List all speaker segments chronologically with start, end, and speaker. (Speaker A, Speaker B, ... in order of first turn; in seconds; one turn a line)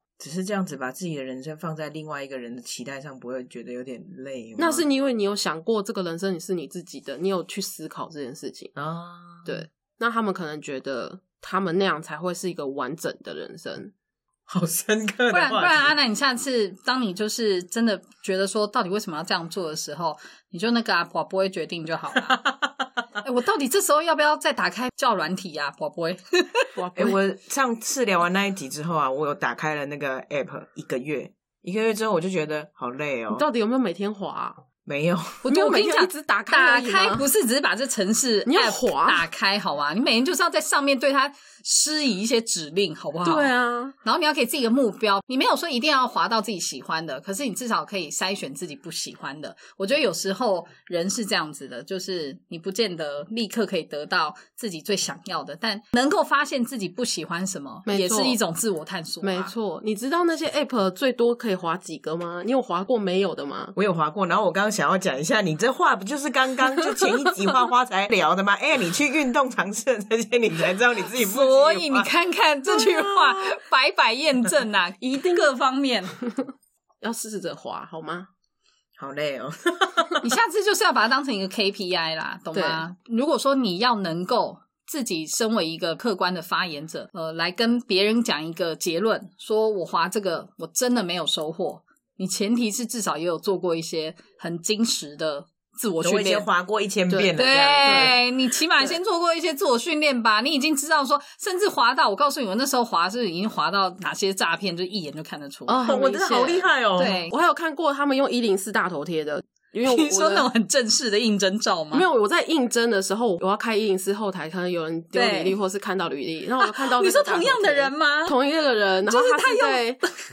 Speaker A: 0.2-4.8
Speaker B: 4.6-8.7
Speaker A: 8.8-9.6
Speaker B: 9.5-13.9
Speaker A: 14.5-15.9
Speaker C: 15.3-22.4
Speaker A: 22.2-22.9
Speaker C: 23.2-26.7
Speaker B: 26.8-27.2
Speaker A: 26.9-33.5
Speaker B: 33.3-34.6
Speaker A: 34.9-35.4
Speaker C: 35.4-43.5
Speaker B: 35.5-37.3
Speaker B: 38.5-39.3
Speaker B: 43.2-44.0
Speaker C: 44.0-59.5
Speaker B: 57.9-58.4
Speaker B: 59.2-63.7
Speaker A: 63.8-72.1
Speaker C: 71.1-76.2
Speaker B: 72.7-73.5
Speaker B: 75.0-75.5
Speaker B: 77.0-78.3
Speaker A: 79.0-80.2
Speaker C: 80.2-96.5
Speaker B: 82.5-82.8
Speaker A: 96.0-98.2
Speaker C: 97.4-105.9
Speaker B: 97.8-98.2
Speaker B: 105.7-110.5
Speaker A: 105.8-107.2
Speaker C: 107.0-107.3
Speaker C: 109.8-112.1
Speaker B: 111.9-120.0
Speaker C: 115.1-115.6
Speaker C: 116.6-118.4
Speaker C: 119.1-120.1